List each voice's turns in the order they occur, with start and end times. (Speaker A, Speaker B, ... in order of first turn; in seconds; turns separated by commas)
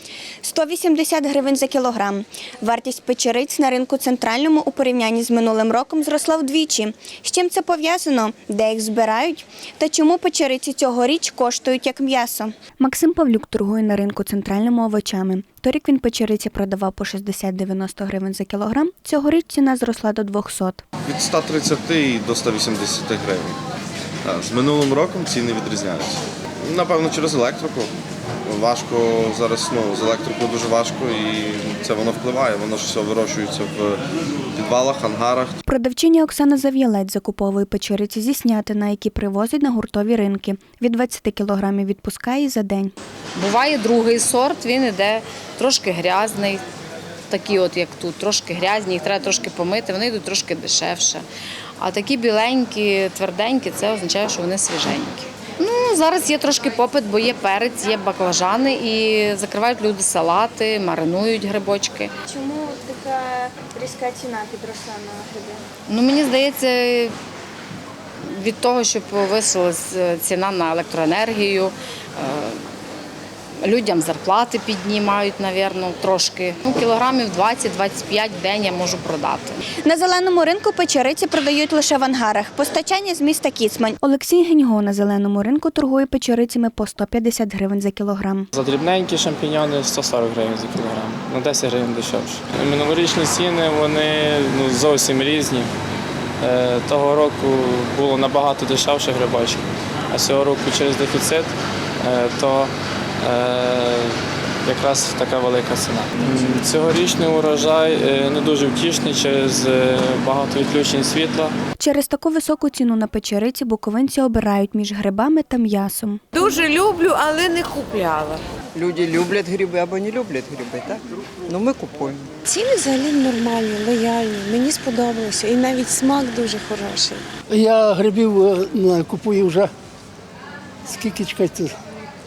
Speaker A: 0.4-20.8, Speaker B: 21.1-23.6, Speaker B: 24.2-34.0, Speaker B: 34.5-35.6, Speaker A: 35.7-42.9, Speaker C: 43.4-46.6, Speaker C: 47.3-51.2, Speaker C: 51.8-62.1, Speaker A: 62.3-65.6, Speaker C: 65.9-67.1, Speaker C: 68.3-72.6, Speaker C: 73.6-79.6, Speaker A: 79.9-88.5, Speaker D: 88.6-95.7, Speaker D: 96.4-111.5, Speaker A: 111.8-116.2, Speaker E: 116.3-118.4, Speaker F: 118.8-122.3, Speaker G: 122.6-127.1, Speaker H: 127.5-129.7, Speaker H: 130.9-131.7